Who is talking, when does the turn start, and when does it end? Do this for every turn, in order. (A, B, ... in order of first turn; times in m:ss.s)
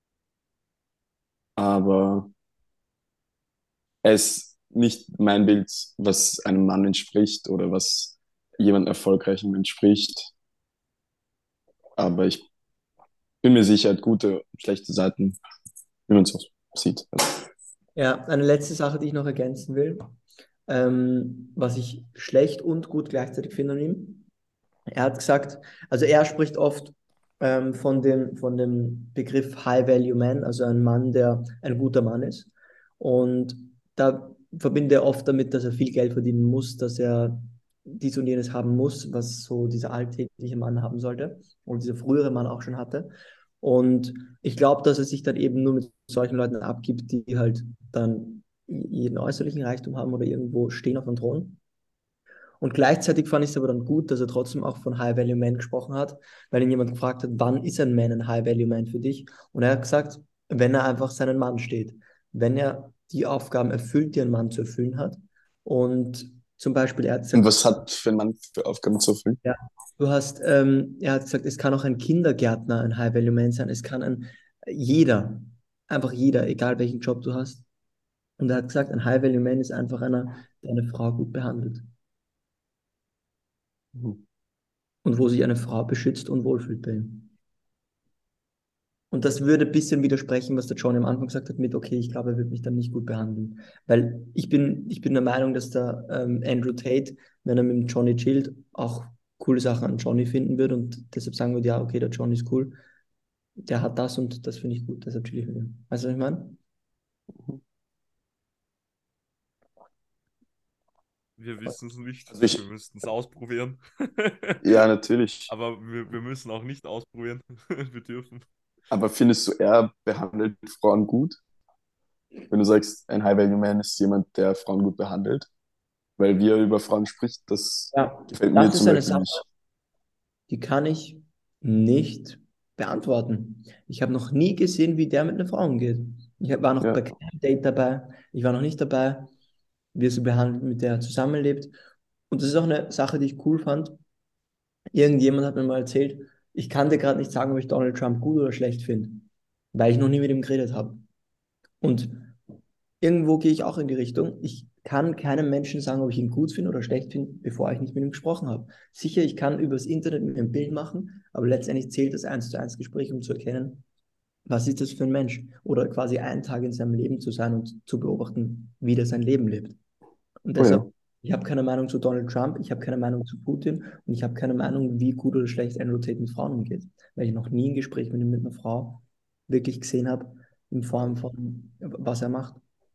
0:01.6-0:02.3 A
0:04.0-0:10.3 A
0:12.0-0:12.4 A
0:13.4-0:15.4 A
0:16.1-0:17.5 A
0:18.0-0:20.2 B
0:20.7-0:24.3 B
0:24.9-0:51.6 B
0:52.6-1:07.7 B
1:07.3-1:09.4 A
1:09.4-1:17.6 B
1:18.4-1:21.9 B
1:24.0-1:24.2 A
1:25.0-1:27.3 B
1:29.1-1:42.8 B
1:43.6-1:46.6 B
1:51.4-1:54.6 C
1:52.3-1:52.6 A
1:54.6-1:55.5 A
1:55.5-1:58.5 C
1:58.9-2:01.4 A
2:02.5-2:05.5 A
2:06.2-2:09.4 A
2:07.9-2:09.4 B
2:10.5-2:19.3 B
2:19.9-2:21.8 B
2:22.3-2:24.0 B
2:24.9-2:31.0 B
2:31.8-2:32.3 B
2:33.0-2:43.8 B
2:44.5-2:49.8 B
2:50.4-3:02.6 B
2:50.6-2:50.9 A